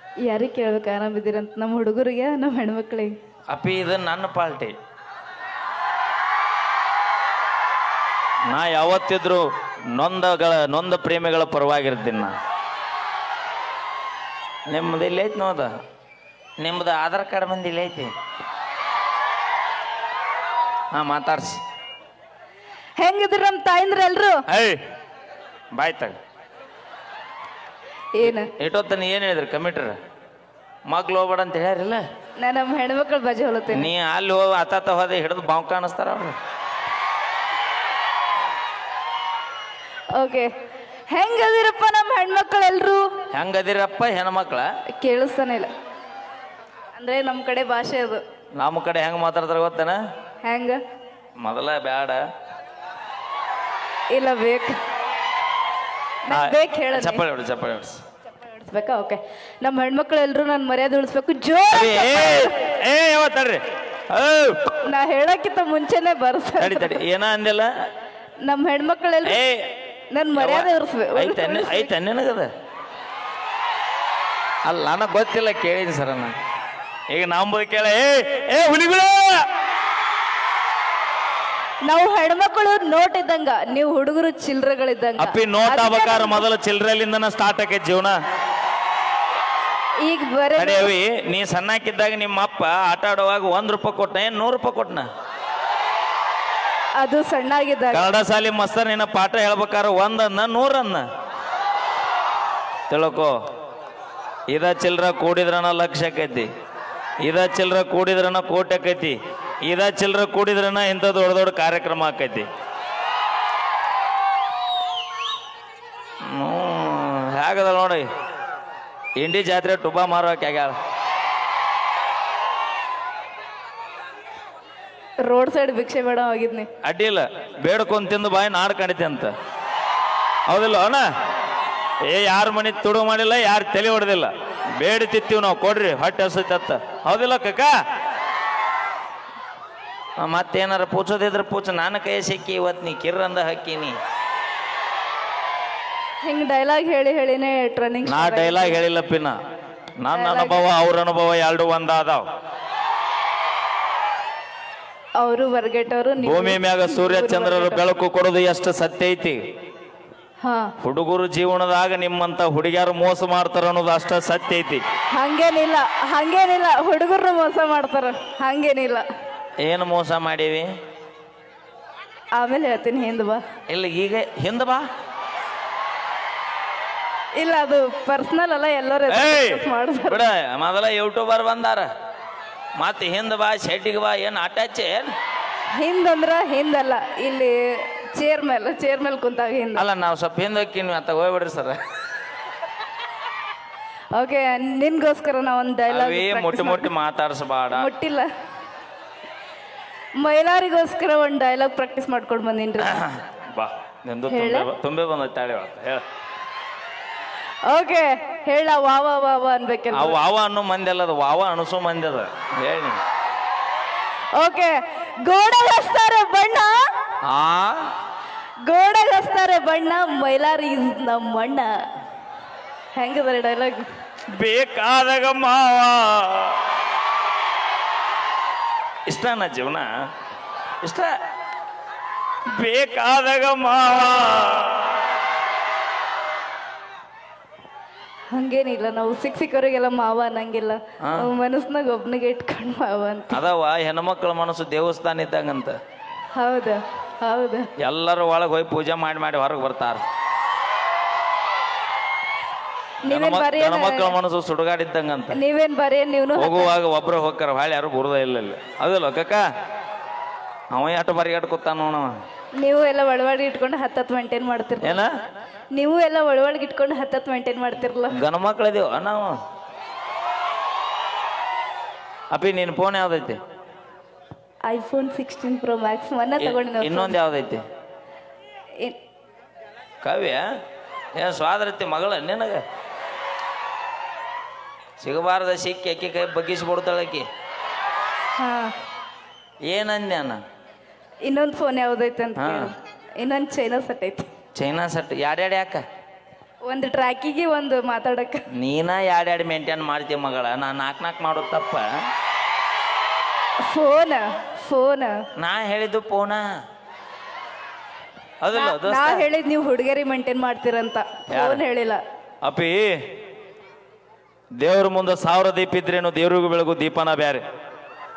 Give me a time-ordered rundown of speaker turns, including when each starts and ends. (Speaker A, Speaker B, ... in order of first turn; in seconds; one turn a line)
Speaker A: 0.2-3.1
Speaker B: 3.5-4.7
Speaker B: 8.5-12.3
Speaker B: 14.7-15.7
Speaker B: 16.6-18.1
Speaker B: 20.9-21.6
Speaker A: 23.0-24.4
Speaker B: 24.5-24.8
Speaker B: 25.7-26.1
Speaker A: 28.2-28.5
Speaker B: 28.2-29.9
Speaker B: 30.9-32.0
Speaker A: 32.4-33.9
Speaker B: 33.7-36.4
Speaker A: 40.1-40.5
Speaker A: 41.1-43.1
Speaker B: 43.3-44.7
Speaker A: 45.0-45.7
Speaker A: 47.0-48.2
Speaker B: 48.6-50.0
Speaker A: 50.4-50.8
Speaker B: 51.4-52.2
Speaker A: 54.1-54.8
Speaker A: 56.2-57.2
Speaker B: 56.3-58.0
Speaker A: 58.5-62.5
Speaker B: 61.7-64.8
Speaker A: 64.8-67.0
Speaker B: 66.6-67.7
Speaker A: 68.4-69.4
Speaker B: 69.2-69.7
Speaker A: 70.1-71.9
Speaker B: 70.3-72.5
Speaker B: 74.6-76.3
Speaker B: 77.1-79.5
Speaker A: 81.8-86.4
Speaker B: 85.2-88.2
Speaker A: 90.0-90.9
Speaker B: 90.5-95.1
Speaker A: 97.0-98.1
Speaker B: 97.9-101.0
Speaker B: 102.9-103.3
Speaker B: 104.5-106.5
Speaker B: 107.2-112.5
Speaker B: 116.2-118.1
Speaker B: 119.2-120.7
Speaker A: 125.2-126.7
Speaker B: 126.8-129.3
Speaker B: 130.5-131.1
Speaker B: 132.0-137.7
Speaker B: 140.2-144.0
Speaker A: 146.2-148.8
Speaker B: 148.0-149.4
Speaker B: 150.0-152.2
Speaker A: 150.1-150.6
Speaker A: 155.2-157.8
Speaker B: 156.2-159.4
Speaker A: 160.4-160.7
Speaker B: 160.8-164.8
Speaker A: 165.1-169.1
Speaker B: 169.6-170.7
Speaker A: 172.4-173.4
Speaker B: 173.7-174.8
Speaker A: 177.4-180.2
Speaker B: 179.1-181.9
Speaker B: 182.8-185.1
Speaker A: 185.8-189.8
Speaker B: 189.7-191.8
Speaker A: 194.1-196.9
Speaker B: 195.9-197.9
Speaker A: 197.7-198.3
Speaker A: 200.2-203.0
Speaker B: 202.8-206.0
Speaker A: 204.3-204.7
Speaker A: 207.7-210.2
Speaker B: 209.9-213.0
Speaker A: 214.3-216.9
Speaker B: 217.3-217.9
Speaker A: 218.7-221.7
Speaker A: 222.9-223.9
Speaker B: 224.3-226.6
Speaker B: 229.1-229.9
Speaker B: 230.8-231.1
Speaker B: 232.5-234.9
Speaker A: 238.3-243.4
Speaker B: 241.0-241.3
Speaker B: 243.3-245.8
Speaker A: 246.3-247.7
Speaker B: 247.8-250.0
Speaker A: 253.1-254.1
Speaker B: 253.1-255.4
Speaker A: 255.3-256.7
Speaker B: 256.4-259.4
Speaker B: 260.7-262.1
Speaker A: 262.6-265.0
Speaker B: 264.8-265.1
Speaker A: 265.7-268.1
Speaker B: 268.1-269.4
Speaker B: 272.3-273.4
Speaker A: 274.7-277.1
Speaker B: 276.4-277.6
Speaker B: 280.0-280.4
Speaker B: 281.2-282.6
Speaker B: 285.0-287.3
Speaker A: 288.4-288.7
Speaker B: 289.7-290.4
Speaker A: 291.2-294.3
Speaker B: 292.4-292.7
Speaker B: 294.5-295.8
Speaker A: 296.6-298.4
Speaker B: 298.5-301.9
Speaker A: 303.7-305.2
Speaker B: 305.4-306.4
Speaker B: 308.4-309.2
Speaker A: 308.5-312.0
Speaker B: 311.3-311.6
Speaker B: 312.4-312.9
Speaker B: 314.6-317.4